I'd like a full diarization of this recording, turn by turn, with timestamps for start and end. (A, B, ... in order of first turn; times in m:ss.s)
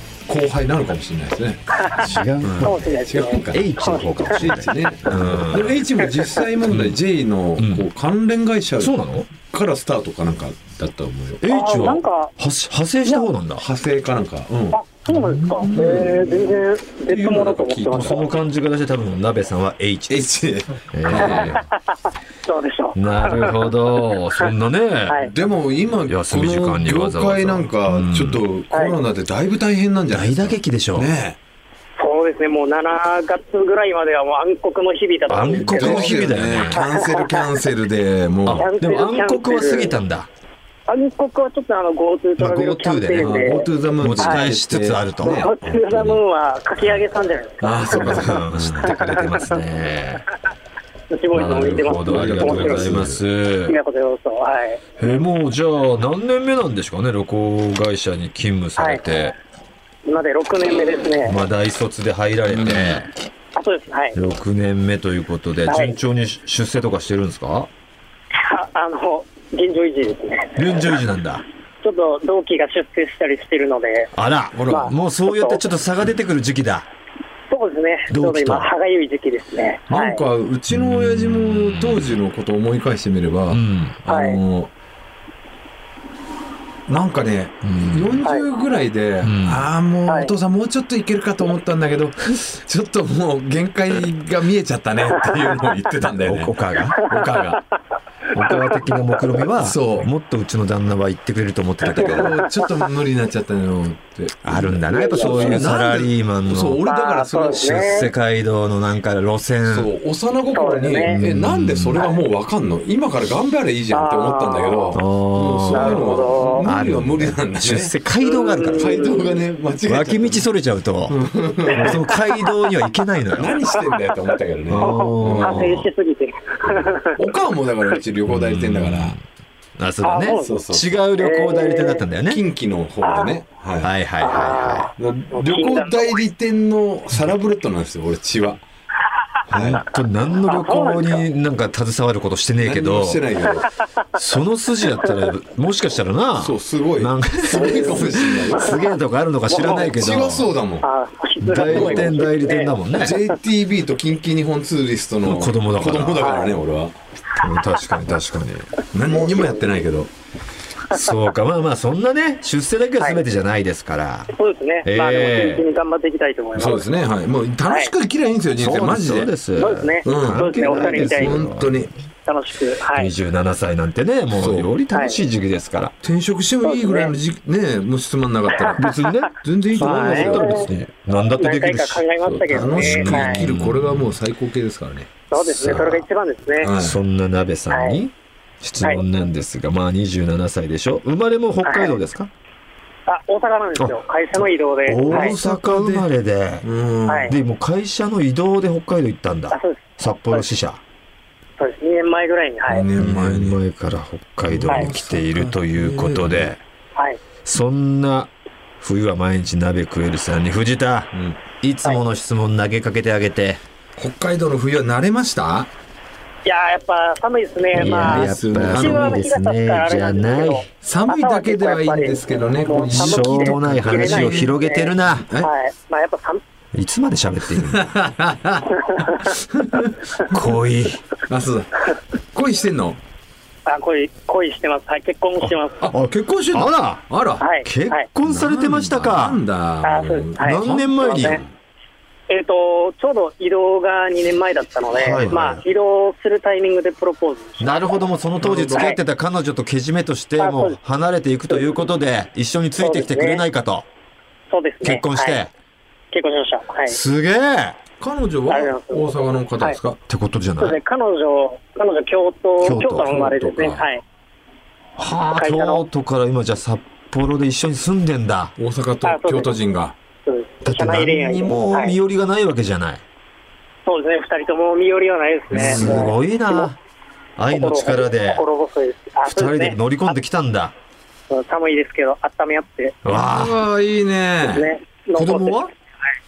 0:00.3-0:01.6 A
0:01.7-0:04.6 B
0:02.0-0:02.8 C
0:02.4-0:03.7 A
0:03.5-0:05.8 C
0:04.3-0:11.4 A
0:06.1-0:06.4 B
0:06.7-0:07.0 C
0:07.6-0:07.9 C
0:08.8-0:09.3 C
0:11.4-0:13.6 C
0:11.5-0:12.3 B
0:13.6-0:14.8 A
0:14.7-0:18.3 B
0:15.1-0:16.0 C
0:15.6-0:16.5 A
0:17.1-0:18.2 A
0:17.5-0:20.2 C
0:20.1-0:21.6 A
0:20.9-0:21.6 C
0:21.2-0:21.7 B
0:22.5-0:23.7 B
0:23.0-0:25.2 C
0:25.2-0:31.4 A
0:26.1-0:28.4 C
0:28.7-0:29.0 B
0:30.1-0:31.1 C
0:32.0-0:36.2 B
0:35.3-0:36.8 C
0:35.6-0:38.7 A
0:36.7-0:37.5 B
0:38.5-0:40.3 C
0:38.5-0:40.0 B
0:40.9-0:43.7 B
0:42.4-0:46.0 C
0:43.2-0:46.2 A
0:44.2-0:44.5 B
0:45.2-0:49.6 B
0:47.6-0:49.1 A
0:47.9-0:50.2 C
0:51.1-0:53.0 B
0:51.3-0:53.8 C
0:52.0-0:53.2 A
0:53.7-0:54.8 B
0:55.0-0:59.4 C
0:58.8-0:59.0 B
1:00.1-1:01.4 B
1:01.2-1:03.1 C
1:02.5-1:03.0 A
1:03.6-1:04.2 B
1:04.2-1:07.7 C
1:05.7-1:06.0 B
1:08.3-1:11.0 B
1:10.6-1:11.4 C
1:11.8-1:14.1 B
1:14.2-1:16.9 C
1:14.5-1:14.9 A
1:14.7-1:15.6 B
1:17.5-1:20.2 B
1:18.1-1:18.7 C
1:19.9-1:24.7 A
1:20.7-1:22.2 C
1:23.5-1:24.0 C
1:24.1-1:24.4 B
1:26.9-1:37.6 A
1:27.6-1:28.2 C
1:29.2-1:29.7 C
1:30.1-1:30.3 B
1:36.2-1:37.0 C
1:37.1-1:37.6 B
1:38.3-1:42.4 C
1:38.5-1:39.0 B
1:39.6-1:40.1 A
1:41.9-1:48.1 A
1:44.4-1:46.8 C
1:44.9-1:45.8 B
1:46.8-1:48.1 B
1:47.8-1:49.9 C
1:49.7-1:58.0 A
1:50.5-1:51.2 B
1:51.2-1:52.0 C
1:53.9-1:55.0 B
1:54.9-1:59.1 C
1:55.7-1:56.7 B
1:58.2-1:59.4 B
1:58.8-2:00.4 A
1:59.9-2:03.6 C
2:01.1-2:02.2 A
2:03.3-2:05.8 A
2:03.8-2:04.0 B
2:04.7-2:05.9 C
2:04.8-2:07.2 B
2:06.6-2:09.2 A
2:08.3-2:09.2 C
2:09.8-2:12.4 C
2:10.0-2:10.6 B
2:10.4-2:10.9 A
2:11.2-2:12.0 B
2:12.3-2:13.9 A
2:13.0-2:13.4 B
2:13.8-2:14.9 C
2:14.2-2:16.2 B
2:15.0-2:18.6 A
2:19.5-2:19.8 A
2:19.5-2:23.2 C
2:20.4-2:21.3 B
2:22.6-2:23.7 A
2:24.1-2:30.5 C
2:26.4-2:28.8 A
2:27.5-2:28.8 B
2:29.5-2:29.9 B
2:29.6-2:30.9 A
2:30.8-2:32.8 B
2:31.4-2:33.2 C
2:31.6-2:32.2 A
2:33.0-2:37.0 A
2:35.2-2:36.3 C
2:36.2-2:36.6 B
2:37.4-2:38.7 C
2:38.9-2:40.1 A
2:39.1-2:39.5 B
2:40.9-2:44.3 C
2:44.3-2:46.9 B
2:44.8-2:45.6 C
2:46.6-2:49.3 A
2:48.6-2:51.8 C
2:49.6-2:51.4 B
2:50.0-2:51.9 A
2:52.3-2:53.1 B
2:52.9-2:56.0 C
2:54.4-2:54.7 A
2:54.9-2:55.2 B
2:56.0-3:00.9 A
2:56.7-2:57.1 B
2:58.6-2:58.9 B
2:58.8-3:04.1 C
2:59.8-3:03.5 B
3:02.5-3:06.0 A
3:05.3-3:06.7 B
3:05.6-3:05.9 C
3:06.6-3:07.0 A
3:06.8-3:12.3 C
3:07.7-3:08.0 B
3:11.6-3:12.0 B
3:13.1-3:15.4 B
3:14.9-3:16.7 C
3:15.1-3:16.1 A
3:16.6-3:17.4 A
3:17.1-3:17.4 B
3:17.3-3:20.8 C
3:19.5-3:20.5 B
3:21.6-3:22.9 B
3:22.7-3:23.6 A
3:23.0-3:26.6 C
3:24.4-3:26.5 A
3:27.5-3:33.6 C
3:31.1-3:31.4 A
3:34.0-3:35.7 A
3:36.4-3:46.4 B
3:37.7-3:40.6 C
3:37.8-3:39.3 A
3:40.8-3:44.5 A
3:42.9-3:45.3 C
3:45.3-3:45.5 A
3:46.7-3:47.9 C
3:47.6-3:49.9 A
3:48.8-3:49.4 B
3:50.2-3:51.0 C
3:51.3-3:53.0 A
3:53.7-3:55.9 B
3:55.4-3:57.1 C
3:55.8-3:57.5 A
3:57.4-3:58.0 B
3:57.6-3:59.4 C
3:58.2-4:01.5 A
3:59.8-4:01.4 B
4:00.4-4:01.4 C
4:02.3-4:08.0 B
4:04.9-4:05.6 C
4:07.6-4:13.9 C
4:08.4-4:08.9 A
4:08.7-4:09.0 B
4:10.4-4:10.8 B
4:12.8-4:13.4 B
4:14.5-4:15.4 B
4:14.8-4:15.5 C
4:16.1-4:17.0 B
4:16.9-4:17.8 C
4:18.0-4:20.0 A
4:18.5-4:19.8 B
4:20.1-4:20.8 C
4:20.6-4:24.0 B
4:22.6-4:23.2 C
4:23.0-4:23.9 A
4:25.0-4:28.5 C
4:25.4-4:25.8 B
4:28.6-4:30.0 A
4:29.0-4:29.6 B
4:30.3-4:32.0 B
4:30.6-4:33.0 C
4:33.9-4:36.7 B
4:35.5-4:36.8 C
4:35.6-4:36.1 A
4:37.4-4:38.4 C
4:37.5-4:39.8 B
4:39.3-4:40.7 C
4:41.3-4:43.0 B
4:43.0-4:43.6 C
4:43.1-4:44.7 A
4:44.4-4:45.7 B
4:45.2-4:45.7 C